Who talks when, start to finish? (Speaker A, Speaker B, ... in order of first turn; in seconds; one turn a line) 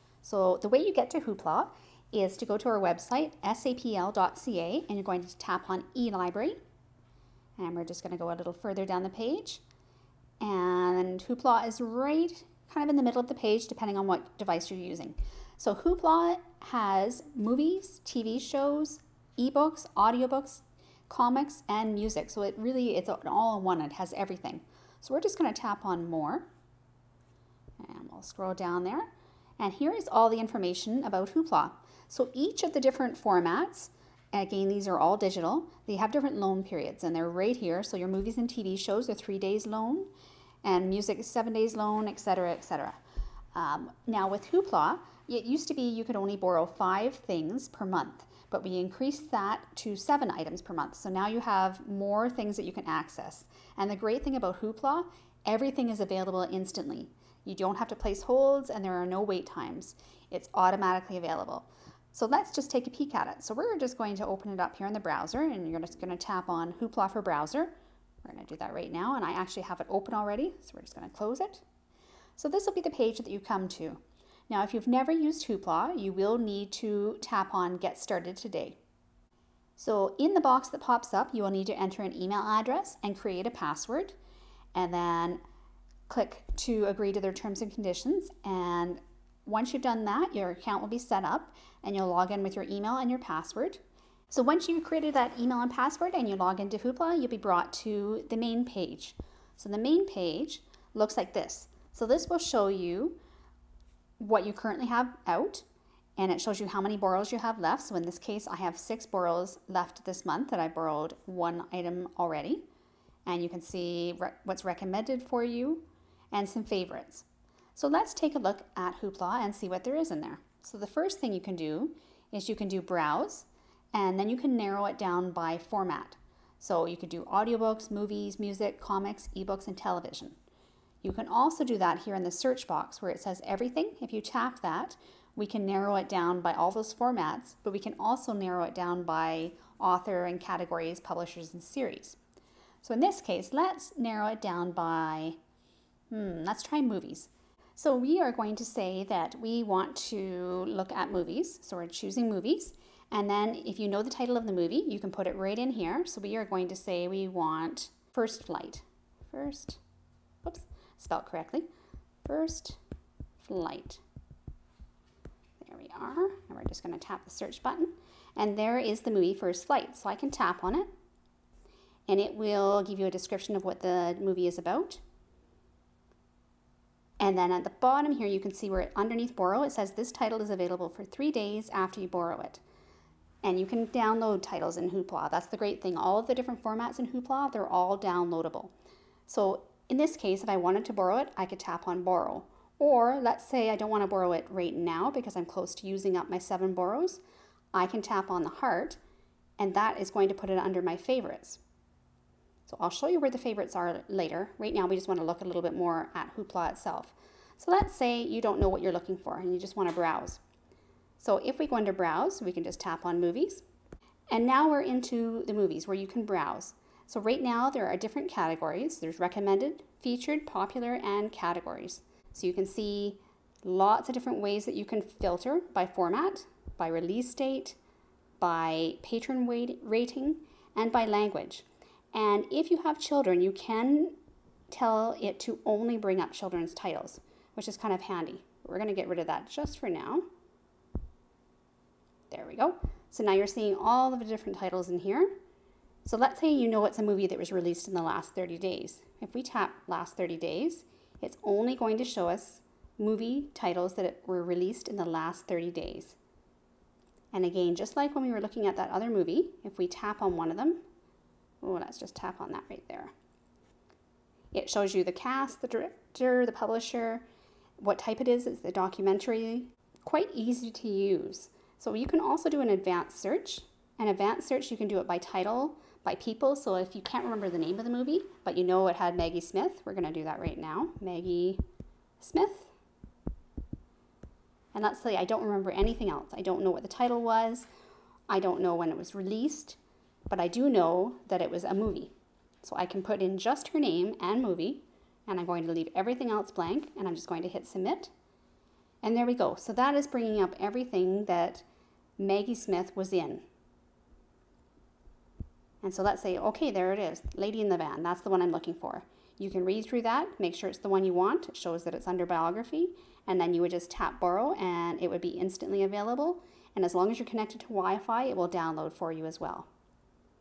Speaker A: 0.2-6.6
Speaker A: 7.6-9.6
Speaker A: 10.4-26.5
Speaker A: 27.8-40.1
Speaker A: 40.6-43.0
Speaker A: 43.5-71.6
Speaker A: 72.4-78.8
Speaker A: 79.8-84.2
Speaker A: 84.7-85.4
Speaker A: 86.1-103.2
Speaker A: 104.2-105.7
Speaker A: 106.2-112.7
Speaker A: 113.2-130.4
Speaker A: 131.0-142.2
Speaker A: 142.8-145.4
Speaker A: 146.1-159.8
Speaker A: 160.4-161.7
Speaker A: 162.2-162.8
Speaker A: 163.4-164.0
Speaker A: 165.6-170.9
Speaker A: 172.1-175.0
Speaker A: 177.2-182.6
Speaker A: 183.4-188.7
Speaker A: 189.3-197.2
Speaker A: 197.7-199.0
Speaker A: 199.6-201.6
Speaker A: 202.7-210.4
Speaker A: 211.2-213.6
Speaker A: 214.3-227.8
Speaker A: 228.4-234.2
Speaker A: 234.7-240.3
Speaker A: 242.3-245.4
Speaker A: 246.0-256.2
Speaker A: 257.3-260.8
Speaker A: 261.6-263.1
Speaker A: 264.5-267.2
Speaker A: 267.8-281.6
Speaker A: 282.2-282.7
Speaker A: 284.7-287.7
Speaker A: 288.3-298.1
Speaker A: 299.0-301.6
Speaker A: 302.2-303.4
Speaker A: 305.8-319.7